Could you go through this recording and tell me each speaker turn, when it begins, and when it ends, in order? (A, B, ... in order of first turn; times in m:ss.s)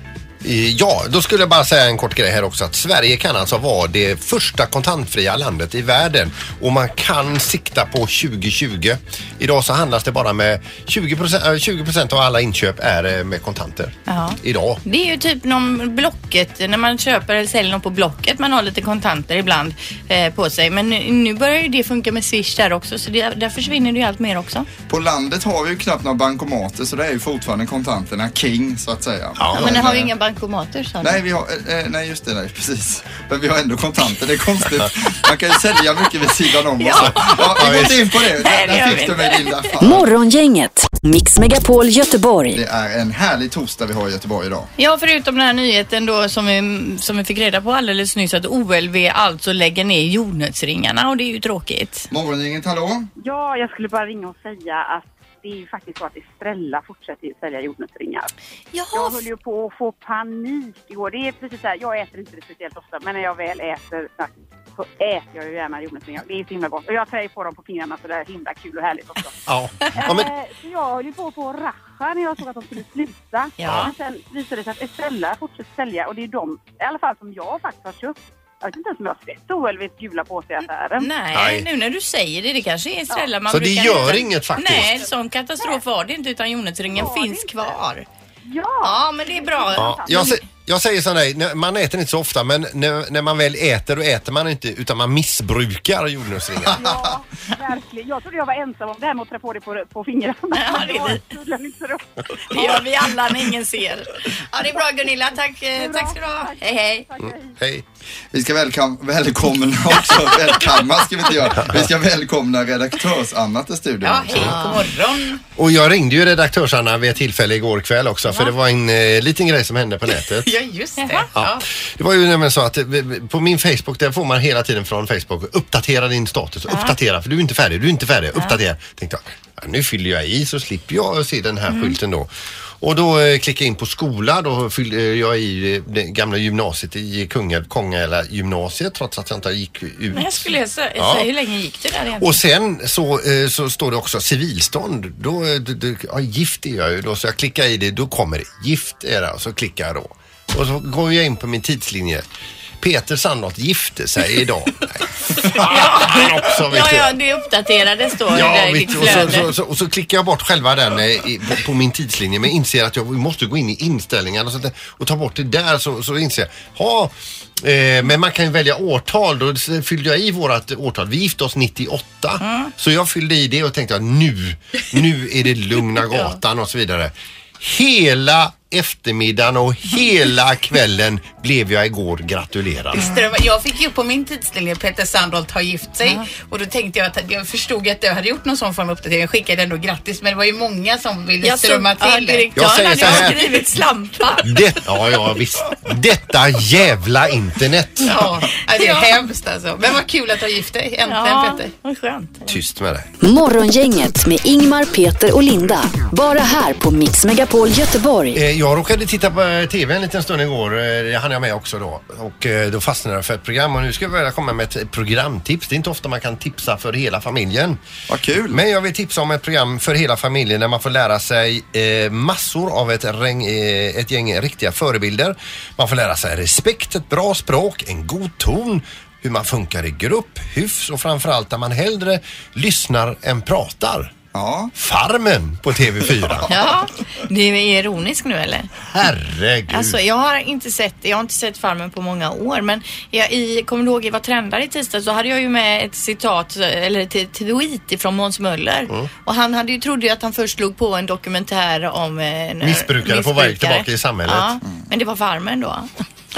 0:00.4-0:14.8 A
0:14.1-0:24.7 B
0:24.9-0:30.1 C
0:29.4-0:29.9 A
0:29.5-0:31.2 B
0:31.0-0:40.1 C
0:36.8-0:39.7 B
0:37.6-0:38.0 A
0:39.8-0:42.6 D
0:42.5-0:44.7 C
0:44.8-0:52.1 B
0:52.1-0:53.1 C
0:53.2-0:58.3 E
0:58.7-0:59.2 B
0:58.9-1:09.3 E
1:09.5-1:10.3 A
1:09.9-1:21.1 E
1:13.6-1:13.9 B
1:13.6-1:13.9 A
1:21.0-1:28.0 B
1:21.3-1:21.6 A
1:23.5-1:24.9 A
1:24.6-1:24.9 E
1:26.9-1:27.8 E
1:28.4-1:30.4 E
1:28.8-1:30.4 B
1:29.8-1:36.8 A
1:36.7-1:37.1 C
1:36.7-1:42.9 E
1:40.5-1:41.2 B
1:42.5-1:47.0 B
1:45.7-1:47.6 E
1:47.6-1:47.8 A
1:48.3-1:54.6 C
1:51.6-1:51.9 A
1:54.0-1:55.4 F
1:54.3-1:54.9 B
1:55.6-2:00.5 A
2:00.4-2:01.6 F
2:01.0-2:01.3 B
2:01.3-2:21.3 A
2:06.7-2:06.9 B
2:20.1-2:22.4 B
2:22.2-2:32.2 A
2:32.8-2:37.1 A
2:35.5-2:39.5 B
2:38.3-3:03.0 A
2:52.4-2:52.7 B
3:02.9-3:12.5 F
3:03.0-3:03.3 B
3:11.4-3:14.8 B
3:12.6-3:13.6 A
3:14.4-3:18.1 A
3:18.0-3:21.7 F
3:18.2-3:19.1 B
3:21.0-3:22.6 B
3:22.5-3:23.1 A
3:23.2-3:28.4 D
3:28.3-3:37.8 A
3:38.1-3:38.6 C
3:38.5-3:54.1 A
3:54.3-3:54.7 C
3:54.7-3:56.5 A
3:56.3-3:56.7 C
3:56.5-3:58.7 B
3:58.9-4:00.0 A
3:59.7-4:15.9 B
4:12.6-4:14.6 A